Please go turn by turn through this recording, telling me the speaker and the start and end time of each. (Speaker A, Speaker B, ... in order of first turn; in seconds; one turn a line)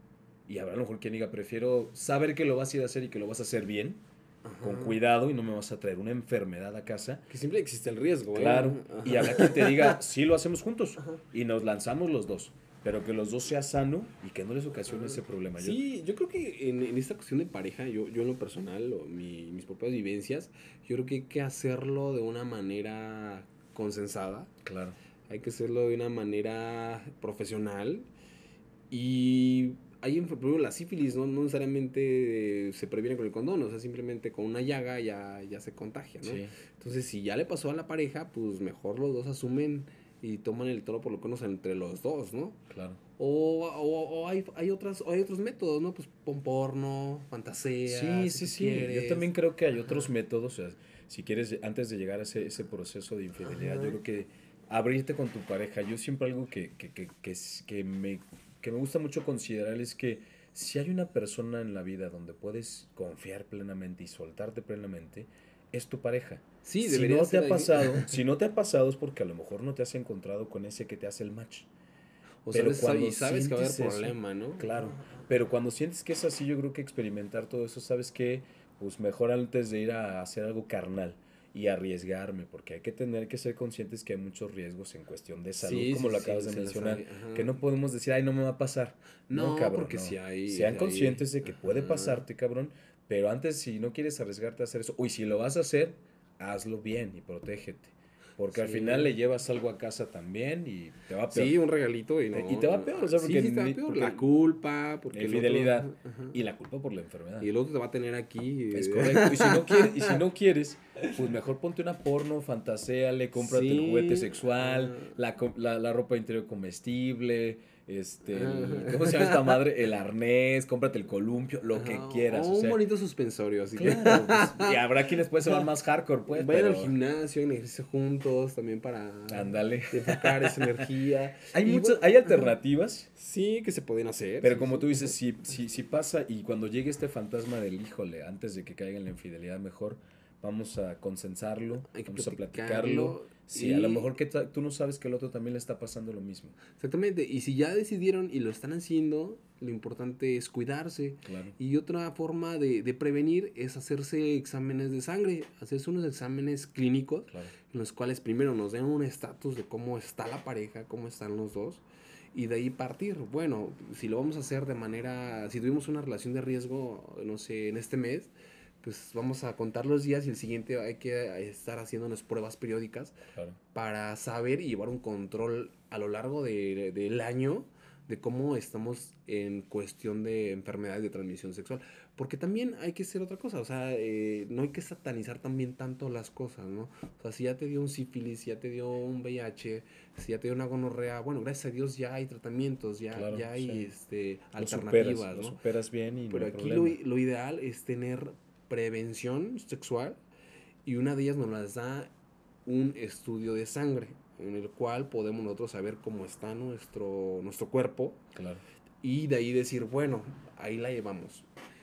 Speaker A: 0.5-4.0
Speaker B: 4.4-5.0
Speaker A: 4.6-7.3
Speaker B: 7.3-10.0
Speaker A: 8.3-15.8
Speaker B: 14.9-24.5
Speaker A: 24.6-24.9
Speaker B: 25.3-28.1
Speaker B: 28.9-42.6
Speaker A: 36.2-36.5
Speaker A: 42.7-43.0
Speaker B: 43.2-49.3
Speaker A: 47.9-71.7
Speaker B: 53.4-54.0
Speaker B: 66.6-68.2
Speaker B: 72.5-75.2
Speaker A: 72.5-101.6
Speaker B: 85.6-87.6
Speaker B: 89.3-92.2
Speaker B: 98.5-99.1
Speaker B: 101.3-106.4
Speaker A: 102.3-104.3
Speaker A: 105.1-107.5
Speaker B: 107.4-110.2
Speaker A: 108.7-122.8
Speaker B: 113.3-115.1
Speaker B: 118.3-119.6
Speaker B: 121.7-124.8
Speaker A: 123.8-126.9
Speaker B: 126.3-132.5
Speaker A: 129.3-130.9
Speaker A: 131.5-133.1
Speaker B: 133.2-135.2
Speaker A: 134.4-146.6
Speaker B: 141.9-144.1
Speaker B: 146.8-161.8
Speaker A: 151.2-151.6
Speaker B: 162.3-173.2
Speaker B: 173.7-195.6
Speaker A: 193.1-193.9
Speaker A: 194.6-197.0
Speaker B: 196.3-200.2
Speaker B: 200.8-202.1
Speaker B: 202.7-208.2
Speaker A: 208.3-208.6
Speaker B: 209.0-211.5